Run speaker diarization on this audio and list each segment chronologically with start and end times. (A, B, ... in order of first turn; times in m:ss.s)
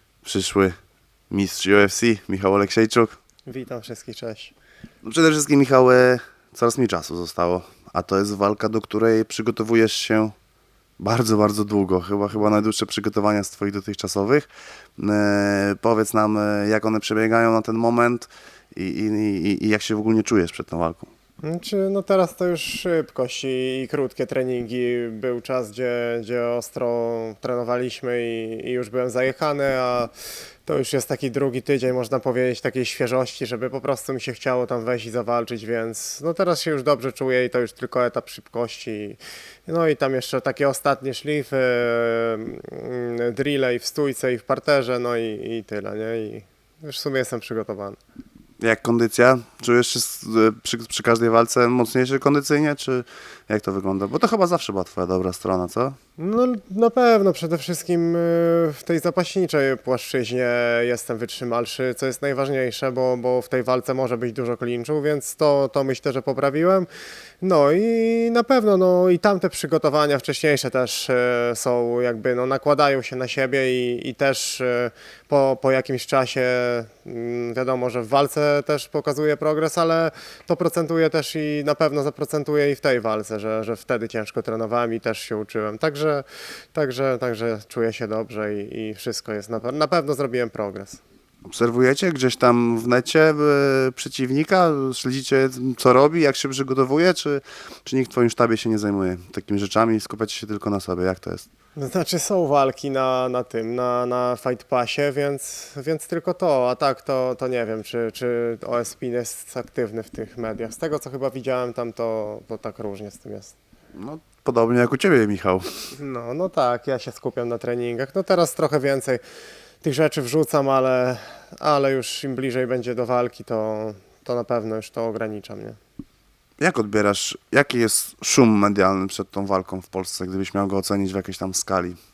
0:00.2-0:00.8 A
0:01.3-0:03.2 A
0:03.4-0:04.5 B
0:05.0-0:10.3 A
0:11.0-0:21.1 A
0:21.4-0:30.1 B
0:30.6-0:48.0 B
0:48.6-0:56.0 A
0:56.2-1:06.9 B
1:07.4-1:31.0 B
1:31.4-1:41.4 A
1:41.8-1:53.5 B
1:53.9-1:55.6 A
1:55.9-1:59.2 B
1:59.8-2:05.8 B
2:06.6-2:12.0 A